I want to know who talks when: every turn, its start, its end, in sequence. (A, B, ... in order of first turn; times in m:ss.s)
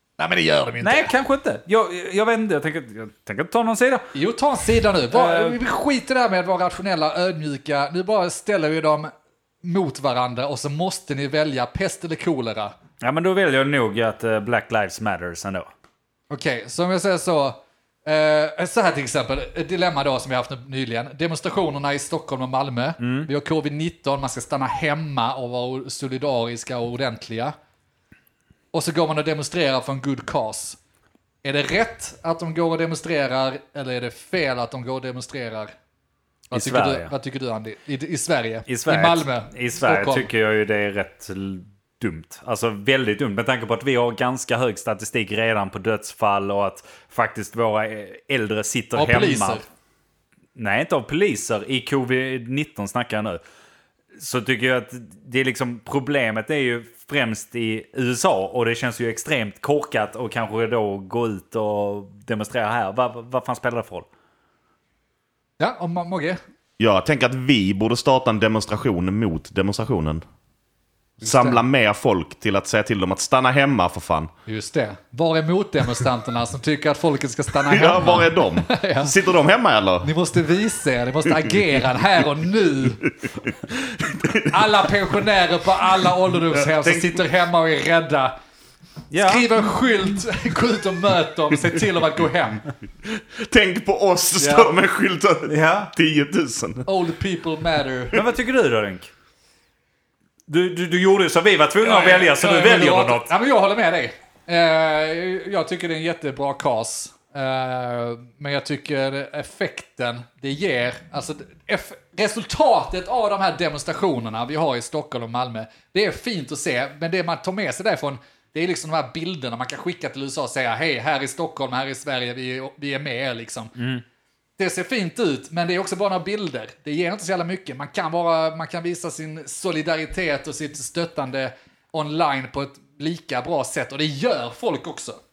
0:00.2-0:01.1 A
0:00.8-0:04.1 B
0:04.1-0:09.1 A
0:05.1-0:05.6 B
0:09.6-0:12.8 A
0:13.0-0:15.7 B
0:16.3-0:27.6 A
0:23.0-0:23.3 B
0:28.7-0:30.8 A
0:31.4-0:35.7 A
0:36.5-0:40.3 A
0:36.5-0:37.1 B
0:38.7-0:49.6 B
0:49.0-0:49.6 A
0:50.6-0:53.4 B
0:54.2-1:04.1 B
1:05.6-1:06.4 A
1:06.8-1:10.2 C
1:11.2-1:11.6 A
1:11.2-1:14.3 C
1:14.5-1:19.1 A
1:17.6-1:20.1 C
1:20.0-1:23.0 A
1:23.4-1:24.8 C
1:24.5-1:28.4 A
1:26.6-1:27.2 C
1:29.1-1:29.5 B
1:29.2-1:32.6 A
1:33.0-1:36.9 C
1:34.4-1:34.7 A
1:35.5-1:35.9 B
1:36.9-1:38.2 A
1:38.1-1:39.1 B
1:40.5-1:43.3 B
1:41.8-2:03.7 A
2:03.8-2:04.0 B
2:04.6-2:15.2 A